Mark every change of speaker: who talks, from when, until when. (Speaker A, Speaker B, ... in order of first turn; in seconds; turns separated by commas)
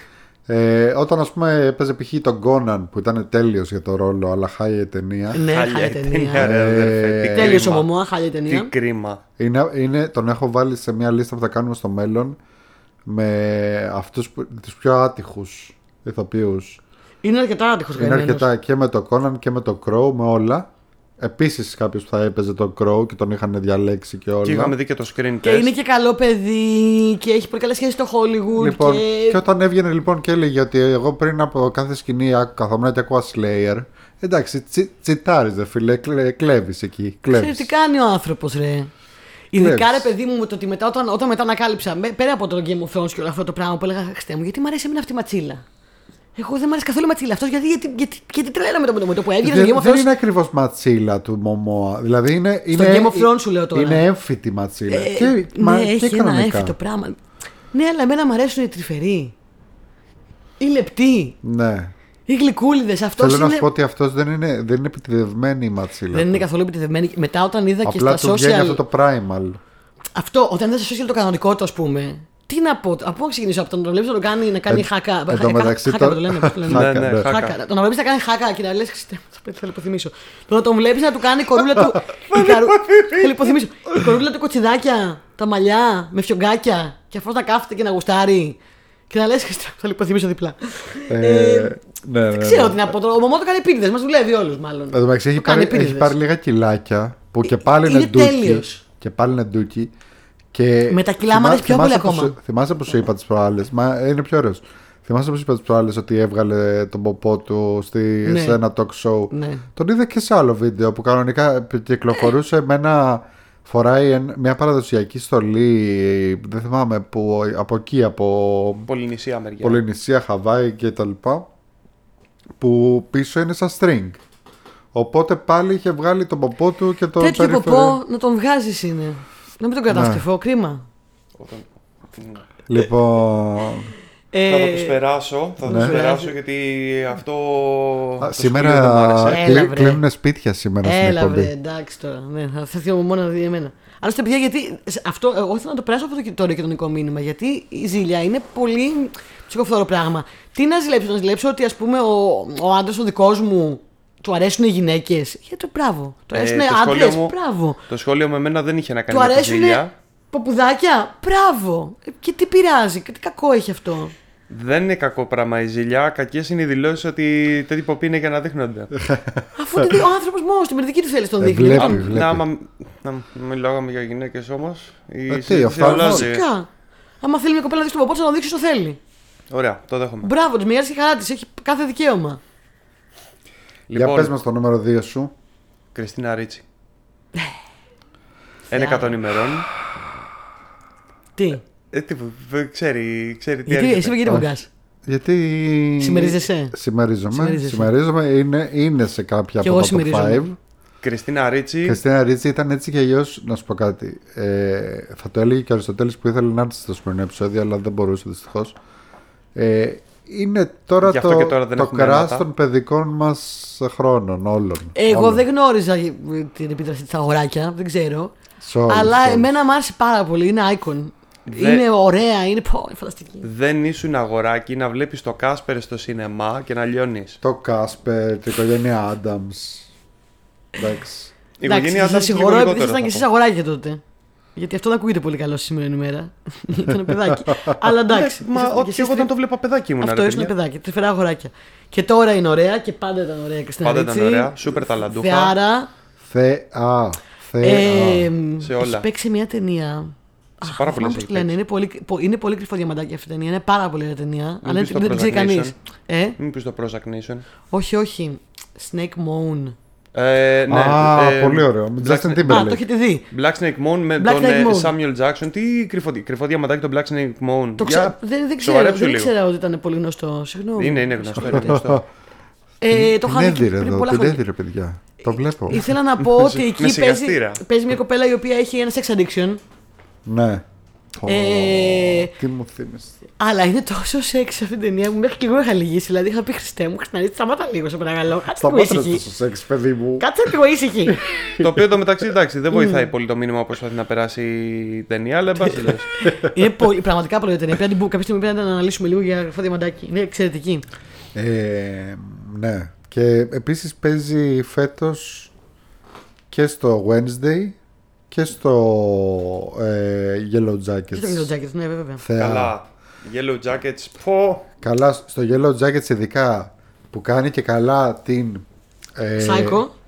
Speaker A: 0.5-5.4, Speaker B: 5.3-6.5, Speaker C: 5.4-7.9, Speaker A: 6.4-7.7, Speaker B: 7.3-8.7, Speaker C: 8.5-9.2, Speaker A: 9.4-12.4, Speaker A: 13.1-16.8, Speaker B: 17.2-18.5, Speaker A: 17.9-20.7, Speaker A: 21.2-24.7, Speaker C: 24.4-25.7, Speaker B: 25.4-29.4, Speaker A: 28.6-37.7, Speaker B: 37.3-38.9, Speaker B: 39.5-45.6, Speaker A: 39.6-40.1, Speaker B: 46.4-50.1, Speaker A: 49.4-56.7, Speaker B: 52.7-54.0, Speaker B: 54.9-57.2, Speaker B: 57.7-59.3, Speaker B: 60.6-61.4, Speaker A: 61.4-61.9, Speaker B: 62.3-63.7, Speaker A: 63.2-66.4, Speaker B: 66.1-68.8, Speaker A: 67.8-69.6, Speaker B: 70.1-88.6, Speaker A: 74.7-77.3, Speaker C: 76.7-77.5, Speaker C: 82.3-83.2, Speaker B: 89.1-91.7, Speaker A: 91.1-92.9, Speaker B: 92.3-96.1, Speaker A: 94.9-99.9, Speaker B: 97.5-98.8, Speaker A: 100.5-118.9, Speaker B: 100.9-102.4, Speaker B: 108.2-108.6, Speaker B: 109.3-109.6, Speaker C: 118.9-119.8, Speaker A: 119.6-121.5, Speaker A: 122.6-124.2, Speaker A: 124.9-128.0, Speaker B: 127.2-130.8, Speaker A: 129.9-130.2, Speaker C: 131.4-132.4, Speaker A: 132.7-133.9, Speaker B: 134.3-135.0, Speaker C: 134.5-139.7, Speaker B: 135.6-136.3, Speaker A: 135.7-136.0, Speaker A: 138.2-141.5, Speaker B: 139.3-140.0, Speaker B: 140.8-157.8, Speaker C: 156.3-157.3, Speaker C: 157.9-159.9, Speaker B: 159.1-164.1, Speaker C: 164.5-168.9, Speaker A: 168.9-170.0, Speaker B: 169.6-172.1, Speaker A: 171.4-172.5, Speaker C: 171.7-176.4, Speaker A: 175.3-176.3, Speaker B: 175.8-176.7, Speaker B: 177.2-179.0, Speaker C: 179.5-180.3, Speaker B: 180.2-182.4, Speaker C: 183.9-184.3, Speaker A: 183.9-185.3, Speaker C: 185.9-186.6, Speaker C: 188.7-189.7, Speaker B: 188.7-189.2, Speaker B: 191.4-191.6, Speaker C: 191.9-194.4, Speaker B: 193.7-194.7, Speaker A: 195.1-200.6, Speaker B: 196.0-196.8, Speaker B: 197.3-197.9, Speaker B: 199.6-200.4, Speaker C: 201.0-202.0, Speaker A: 201.8-208.8, Speaker A: 209.6-215.4, Speaker C: 211.1-212.4, Speaker B: 214.9-218.3, Speaker A: 218.6-219.5, Speaker B: 218.9-223.5, Speaker C: 221.5-221.8, Speaker C: 223.4-227.4, Speaker A: 227.4-229.9, Speaker A: 230.7-231.3, Speaker C: 231.6-233.3, Speaker B: 231.6-234.0, Speaker B: 234.6-239.3, Speaker A: 237.1-237.7, Speaker C: 238.1-240.5, Speaker B: 240.0-245.9, Speaker C: 243.8-245.6, Speaker A: 246.2-248.3, Speaker B: 247.6-256.4, Speaker C: 248.6-249.1, Speaker C: 250.6-251.5, Speaker C: 254.6-255.7, Speaker C: 256.4-257.4, Speaker B: 257.7-259.8, Speaker C: 260.1-262.7, Speaker A: 260.7-262.8, Speaker B: 262.5-263.2, Speaker C: 263.3-269.3, Speaker B: 264.2-264.9, Speaker B: 267.8-271.8, Speaker C: 270.8-272.0, Speaker A: 271.4-272.0, Speaker B: 272.8-274.4, Speaker A: 272.9-275.8, Speaker B: 275.7-279.6, Speaker C: 275.7-277.6, Speaker A: 280.3-280.6, Speaker A: 281.1-283.2, Speaker B: 281.3-282.3, Speaker B: 283.4-289.2, Speaker A: 288.6-290.3, Speaker B: 290.2-291.2, Speaker A: 291.1-291.7, Speaker C: 291.6-296.1, Speaker B: 292.7-293.1, Speaker B: 295.6-300.8, Speaker A: 296.3-296.6, Speaker A: 301.3-305.5, Speaker A: 306.5-307.8, Speaker A: 308.3-311.5, Speaker B: 311.1-312.2, Speaker A: 312.2-312.7, Speaker C: 312.4-314.7, Speaker A: 314.8-318.6, Speaker A: 319.2-319.8, Speaker B: 319.4-319.9